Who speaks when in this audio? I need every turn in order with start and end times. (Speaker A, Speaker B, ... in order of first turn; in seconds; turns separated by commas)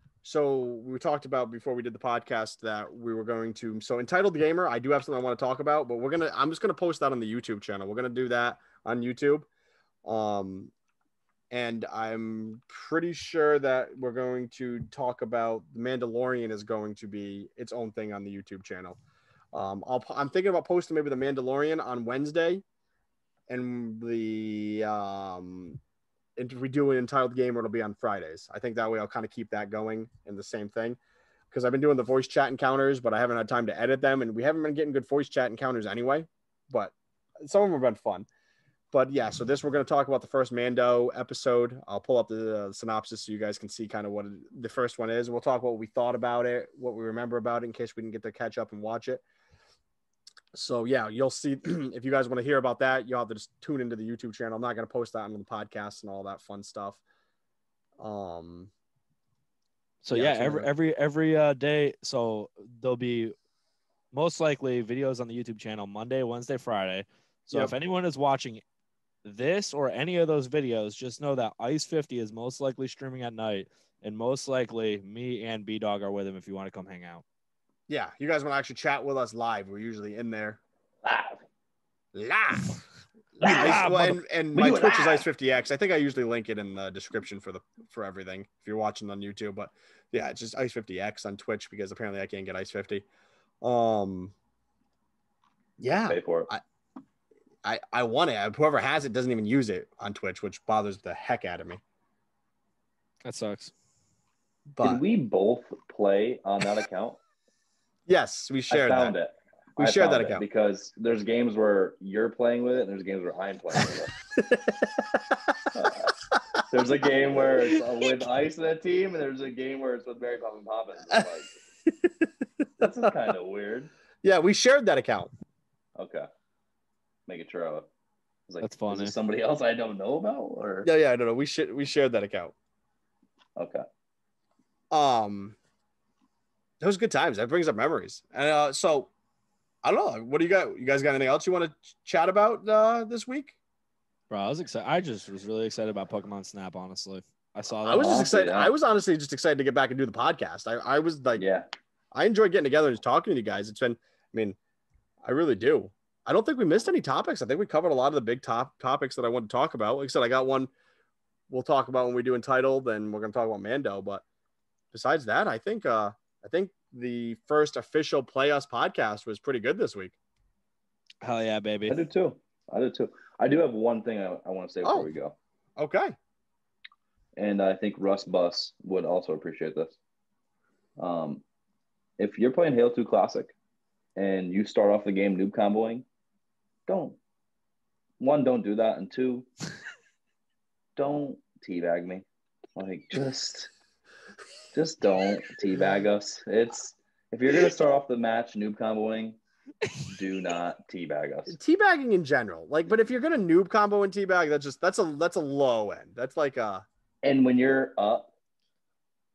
Speaker A: 0.2-9.5, Speaker A: 10.0-10.7, Speaker A: 11.5-19.0, Speaker A: 19.5-22.6, Speaker A: 23.5-25.8, Speaker A: 26.4-31.0, Speaker A: 31.5-38.3, Speaker A: 38.9-49.2, Speaker A: 50.5-57.0, Speaker A: 58.0-58.7, Speaker B: 60.0-63.3, Speaker A: 60.1-60.7, Speaker B: 64.1-68.6, Speaker B: 69.2-77.2, Speaker A: 77.9-80.6, Speaker C: 81.0-81.4, Speaker A: 82.1-82.7, Speaker A: 83.4-93.0, Speaker C: 83.4-83.9, Speaker B: 83.4-84.2, Speaker C: 84.5-85.2, Speaker A: 93.6-94.3, Speaker A: 95.8-96.6, Speaker C: 96.1-96.5, Speaker A: 97.6-101.8, Speaker B: 103.2-103.7, Speaker A: 104.8-105.0, Speaker C: 104.8-107.2, Speaker A: 108.1-109.1, Speaker C: 108.7-114.1, Speaker A: 109.8-110.4, Speaker A: 113.9-115.3, Speaker C: 115.7-116.1, Speaker A: 116.3-116.6, Speaker C: 116.7-121.5, Speaker A: 117.2-117.8, Speaker A: 121.9-122.3, Speaker C: 122.8-123.9, Speaker A: 124.2-125.3, Speaker C: 126.0-126.3, Speaker C: 127.3-127.9, Speaker C: 128.5-130.9, Speaker B: 128.6-129.1, Speaker A: 130.8-132.5, Speaker C: 133.6-133.8, Speaker A: 134.9-135.6, Speaker A: 136.8-139.1, Speaker A: 139.8-143.6, Speaker B: 144.3-148.2, Speaker A: 147.8-151.4, Speaker C: 147.9-148.7, Speaker C: 151.4-151.7, Speaker A: 152.1-154.6, Speaker A: 155.2-160.7, Speaker A: 161.5-164.2, Speaker A: 164.9-170.2, Speaker B: 171.2-172.0, Speaker C: 171.9-175.3, Speaker A: 174.8-175.1, Speaker A: 175.8-176.1, Speaker C: 177.3-180.0, Speaker C: 181.0-181.4, Speaker C: 182.2-183.5, Speaker C: 184.2-186.1, Speaker C: 186.9-187.2, Speaker C: 188.2-189.5, Speaker C: 190.9-193.7, Speaker C: 194.7-199.4, Speaker C: 200.1-201.6, Speaker A: 201.5-206.8, Speaker C: 207.2-208.3